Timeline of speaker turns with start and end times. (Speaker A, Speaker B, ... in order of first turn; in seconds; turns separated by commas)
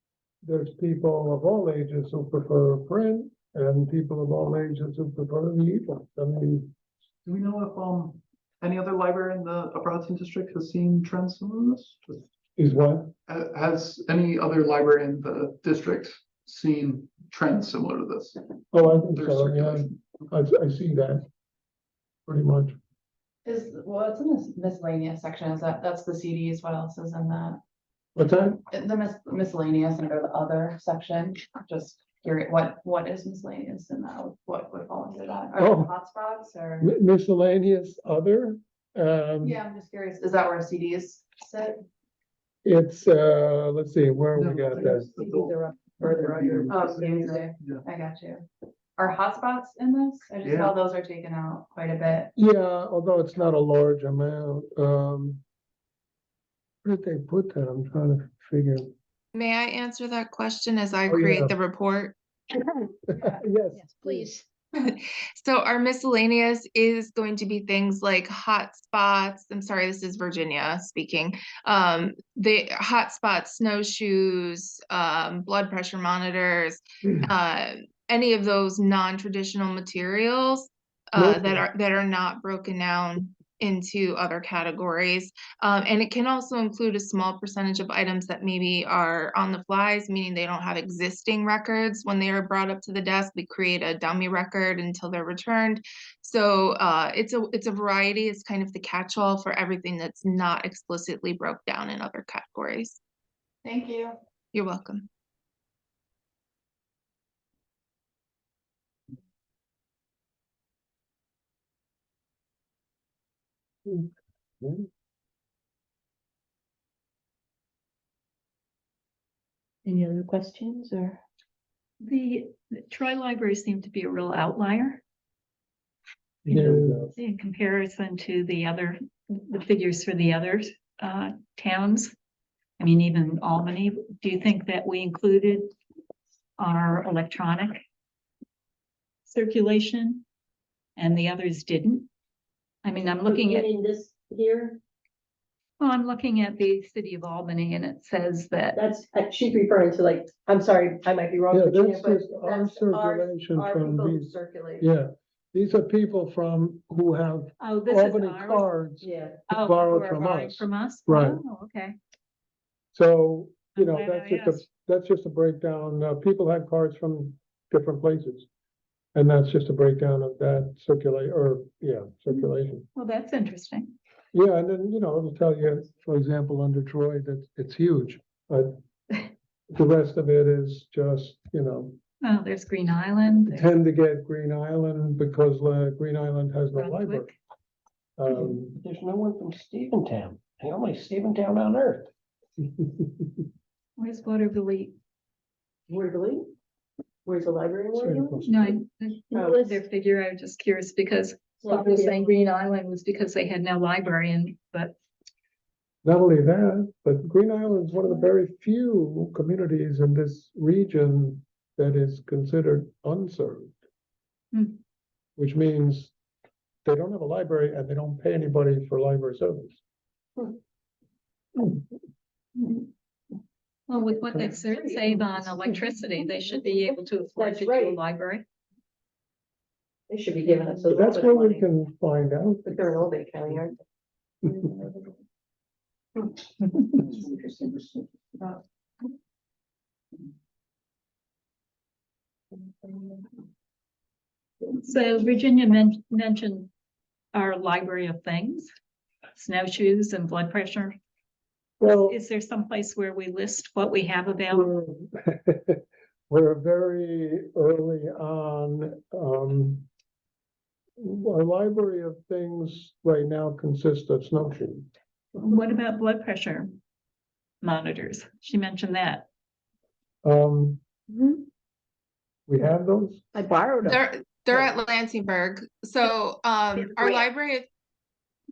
Speaker A: 0.4-6.7, Speaker B: 7.2-12.3, Speaker A: 12.6-13.1, Speaker B: 13.3-18.4, Speaker A: 18.7-21.2, Speaker B: 19.1-20.3, Speaker A: 22.3-22.8, Speaker C: 23.4-27.6, Speaker A: 28.1-28.6, Speaker C: 28.7-36.9, Speaker A: 35.6-35.9, Speaker A: 36.8-39.6, Speaker C: 39.4-41.8, Speaker A: 42.6-45.1, Speaker B: 44.3-47.8, Speaker D: 44.8-47.5, Speaker C: 47.0-48.5, Speaker C: 49.0-52.3, Speaker B: 50.4-50.8, Speaker A: 52.4-55.4, Speaker A: 56.8-58.9, Speaker E: 59.3-62.1, Speaker A: 61.1-61.5, Speaker A: 63.1-64.4, Speaker E: 64.7-103.0, Speaker A: 81.2-81.6, Speaker C: 103.6-104.2, Speaker E: 104.5-105.1, Speaker A: 114.6-114.9, Speaker F: 122.0-125.0, Speaker A: 126.4-127.1, Speaker F: 127.2-132.1, Speaker F: 132.8-135.7, Speaker F: 136.6-137.8, Speaker F: 139.2-140.2, Speaker F: 141.0-142.1, Speaker F: 142.8-143.7, Speaker D: 143.2-144.8, Speaker F: 145.8-148.8, Speaker D: 148.7-154.8, Speaker A: 151.5-161.4, Speaker F: 157.6-158.7, Speaker D: 159.0-159.4, Speaker F: 159.5-162.0, Speaker A: 162.9-168.5, Speaker F: 163.7-164.7, Speaker A: 169.1-172.9, Speaker F: 172.9-173.9, Speaker A: 174.3-178.7, Speaker A: 179.7-182.0, Speaker F: 182.2-183.7, Speaker A: 183.5-187.3, Speaker F: 186.7-187.3, Speaker A: 188.2-188.8, Speaker G: 188.3-192.1, Speaker F: 194.0-194.9, Speaker D: 195.9-196.4, Speaker D: 197.2-198.5, Speaker A: 197.9-198.8, Speaker F: 198.5-204.9, Speaker D: 199.3-199.8, Speaker D: 201.6-202.3, Speaker A: 206.0-213.8, Speaker F: 214.5-214.8, Speaker A: 215.4-216.1, Speaker A: 216.8-219.8, Speaker F: 223.9-228.4, Speaker D: 227.3-228.0, Speaker D: 230.1-231.6, Speaker F: 230.4-230.8, Speaker A: 230.9-233.0, Speaker D: 232.6-233.8, Speaker D: 234.4-235.1, Speaker D: 236.2-236.4, Speaker D: 236.9-237.7, Speaker D: 242.8-243.2, Speaker F: 244.7-246.7, Speaker F: 247.3-248.7, Speaker F: 249.3-251.0, Speaker A: 251.8-252.2, Speaker F: 251.8-254.7, Speaker A: 254.5-259.9, Speaker A: 261.0-264.9, Speaker F: 265.4-266.7, Speaker F: 267.6-269.2, Speaker A: 270.2-270.8, Speaker A: 272.5-273.3, Speaker D: 273.5-273.9, Speaker E: 273.8-277.7